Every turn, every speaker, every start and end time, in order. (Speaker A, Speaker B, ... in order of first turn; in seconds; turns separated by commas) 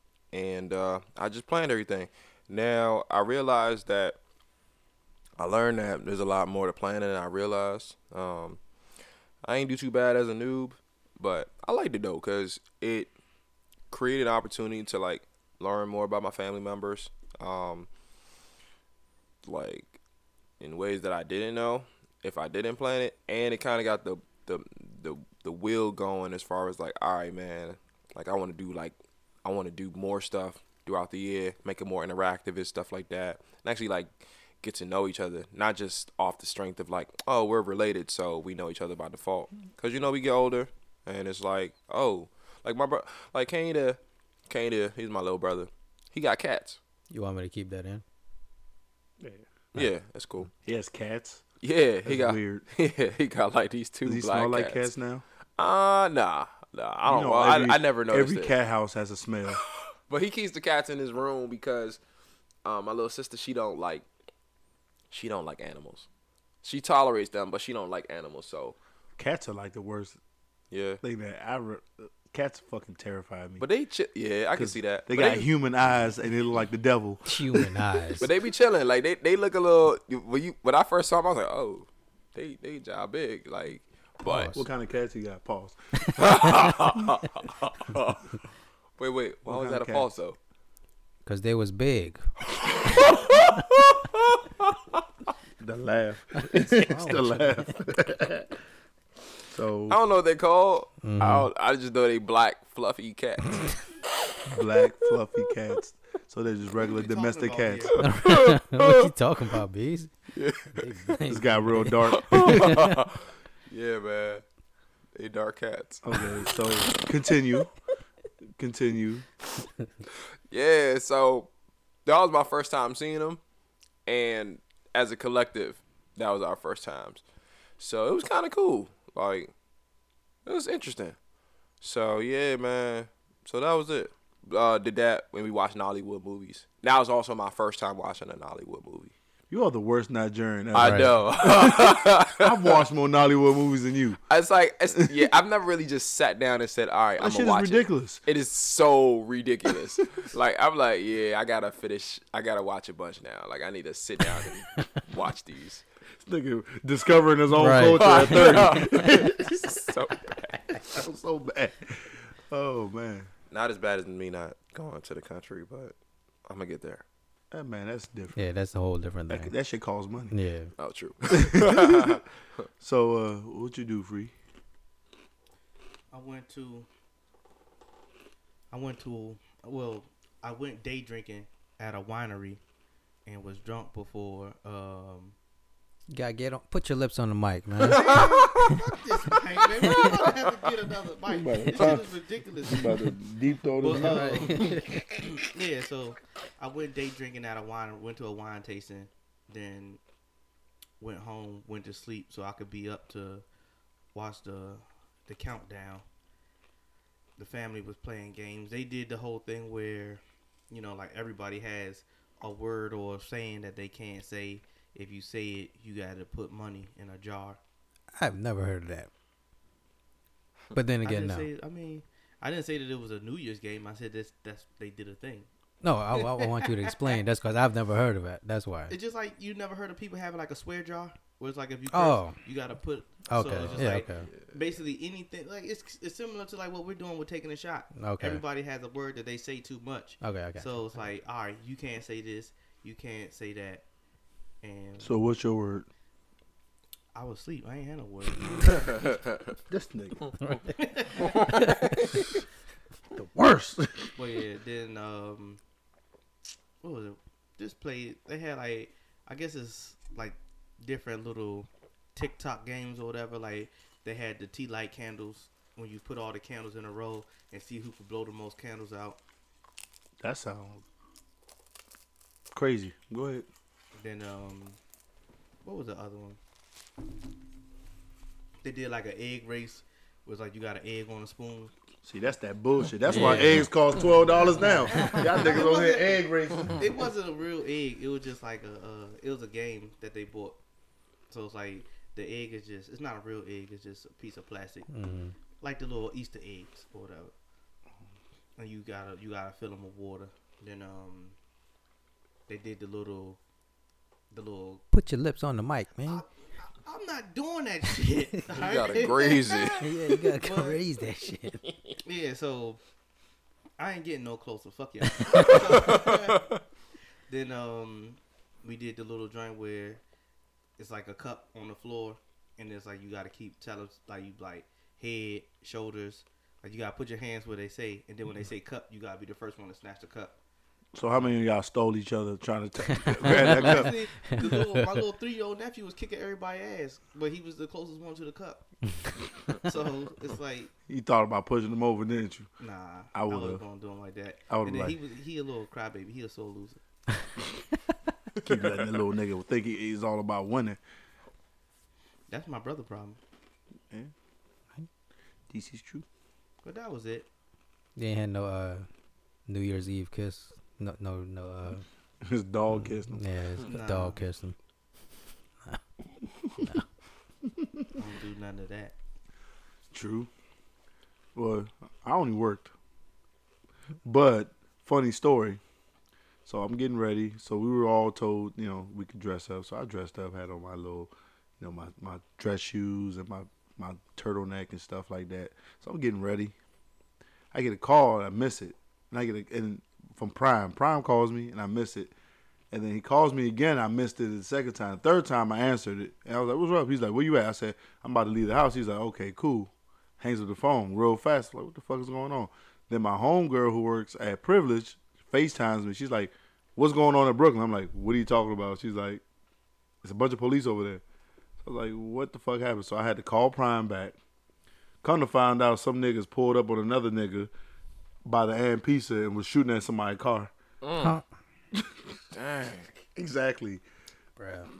Speaker A: 0.3-4.2, Speaker A: 5.4-8.6, Speaker A: 9.4-13.1, Speaker A: 13.9-17.9, Speaker A: 19.4-19.9, Speaker A: 20.6-46.8, Speaker B: 47.1-48.0, Speaker C: 49.2-49.5, Speaker A: 49.7-50.5, Speaker C: 50.6-51.4, Speaker A: 51.6-54.9, Speaker C: 52.0-52.6, Speaker C: 54.0-55.2, Speaker A: 55.6-58.5, Speaker C: 57.0-59.6, Speaker A: 59.6-62.0, Speaker A: 62.6-64.1, Speaker A: 65.1-66.1, Speaker A: 66.6-68.8, Speaker C: 69.2-70.2, Speaker A: 70.7-71.0, Speaker C: 71.0-73.6, Speaker A: 73.6-75.5, Speaker C: 74.5-77.7, Speaker B: 77.2-78.3, Speaker A: 78.2-84.5, Speaker B: 84.2-84.7, Speaker C: 84.5-86.5, Speaker A: 86.0-88.3, Speaker A: 89.0-90.4, Speaker C: 89.5-90.2, Speaker B: 91.2-92.2, Speaker A: 92.5-95.0, Speaker C: 95.6-98.6, Speaker B: 96.4-97.7, Speaker C: 99.5-100.0, Speaker A: 99.9-103.8, Speaker B: 101.0-101.5, Speaker C: 104.5-107.9, Speaker D: 106.8-108.0, Speaker A: 107.9-109.1, Speaker B: 108.0-110.1, Speaker A: 110.3-111.2, Speaker B: 110.7-113.0, Speaker C: 111.3-112.9, Speaker A: 112.0-114.4, Speaker A: 115.1-117.3, Speaker C: 116.0-117.7, Speaker C: 118.6-119.2, Speaker A: 120.5-121.5, Speaker A: 122.0-123.4, Speaker A: 124.1-127.2, Speaker A: 127.8-129.5, Speaker A: 130.4-131.2, Speaker A: 131.8-139.1, Speaker C: 139.5-144.2, Speaker A: 140.7-142.8, Speaker B: 140.8-141.1, Speaker A: 144.3-155.8, Speaker C: 144.9-145.2, Speaker C: 147.2-148.2, Speaker C: 156.2-159.7, Speaker B: 157.5-159.2, Speaker A: 158.0-160.8, Speaker C: 160.8-163.3, Speaker A: 163.5-165.9, Speaker A: 166.5-167.0, Speaker C: 167.5-168.4, Speaker B: 168.3-169.5, Speaker C: 169.3-170.3, Speaker B: 170.3-170.7, Speaker A: 170.8-172.6, Speaker C: 171.3-172.2, Speaker C: 172.8-174.3, Speaker D: 176.1-176.9, Speaker D: 178.7-182.6, Speaker D: 183.2-185.3, Speaker B: 186.1-188.7, Speaker A: 187.8-188.8, Speaker D: 187.8-192.9, Speaker A: 189.8-190.3, Speaker C: 191.2-194.7, Speaker D: 193.8-200.0, Speaker B: 193.9-195.0, Speaker D: 201.0-203.4, Speaker D: 204.1-206.0, Speaker D: 207.4-217.6, Speaker B: 218.2-219.1, Speaker B: 220.7-221.5, Speaker D: 221.0-225.5, Speaker B: 225.8-228.9, Speaker D: 226.2-227.2, Speaker D: 228.9-243.8, Speaker B: 231.9-232.4, Speaker B: 233.3-234.3, Speaker A: 233.6-234.7, Speaker B: 237.9-238.4, Speaker B: 240.2-240.8, Speaker D: 244.6-245.2, Speaker C: 245.0-245.9, Speaker D: 247.1-249.1, Speaker C: 249.7-250.3, Speaker B: 250.4-250.7, Speaker D: 250.7-251.5, Speaker B: 251.3-251.9, Speaker C: 253.1-254.2, Speaker D: 254.2-255.6, Speaker D: 256.8-269.2, Speaker C: 270.2-270.8, Speaker C: 272.5-273.5, Speaker D: 273.9-274.8, Speaker D: 275.6-276.4, Speaker D: 278.6-281.7, Speaker C: 282.0-287.1, Speaker B: 283.1-283.7, Speaker D: 283.1-283.5, Speaker B: 284.6-285.2, Speaker D: 284.9-290.6, Speaker D: 291.3-294.9, Speaker B: 294.9-295.3, Speaker D: 295.6-297.3, Speaker D: 298.6-301.4, Speaker D: 302.5-303.4, Speaker D: 304.3-304.8, Speaker B: 304.9-306.2, Speaker D: 306.1-310.8, Speaker A: 308.5-309.9, Speaker B: 309.8-311.6, Speaker D: 312.0-312.8, Speaker D: 313.8-316.5, Speaker B: 315.2-315.6, Speaker A: 315.3-316.6, Speaker D: 317.3-320.0, Speaker D: 320.8-330.4, Speaker C: 330.9-334.0, Speaker B: 332.9-335.0, Speaker D: 333.3-338.7, Speaker D: 339.6-340.7, Speaker C: 340.9-342.5, Speaker D: 342.6-346.8, Speaker C: 343.1-343.6, Speaker C: 344.5-345.0, Speaker A: 348.4-348.9, Speaker C: 348.4-350.8, Speaker D: 352.3-353.2, Speaker C: 355.5-356.1, Speaker D: 356.6-357.3, Speaker B: 357.9-358.9, Speaker B: 359.5-361.8, Speaker C: 362.2-363.2, Speaker B: 362.8-364.5, Speaker D: 363.6-364.2, Speaker C: 366.4-366.7, Speaker C: 367.5-367.9, Speaker D: 367.9-368.9, Speaker C: 369.9-370.3, Speaker C: 371.3-372.7, Speaker C: 374.0-375.6, Speaker C: 376.4-386.5, Speaker C: 387.5-392.1, Speaker C: 392.7-409.2, Speaker C: 410.0-411.0, Speaker C: 411.6-414.1, Speaker C: 415.0-417.5, Speaker C: 418.2-420.5, Speaker A: 420.8-421.2, Speaker C: 421.7-422.2, Speaker A: 422.3-422.9, Speaker C: 423.1-423.8, Speaker B: 424.4-424.7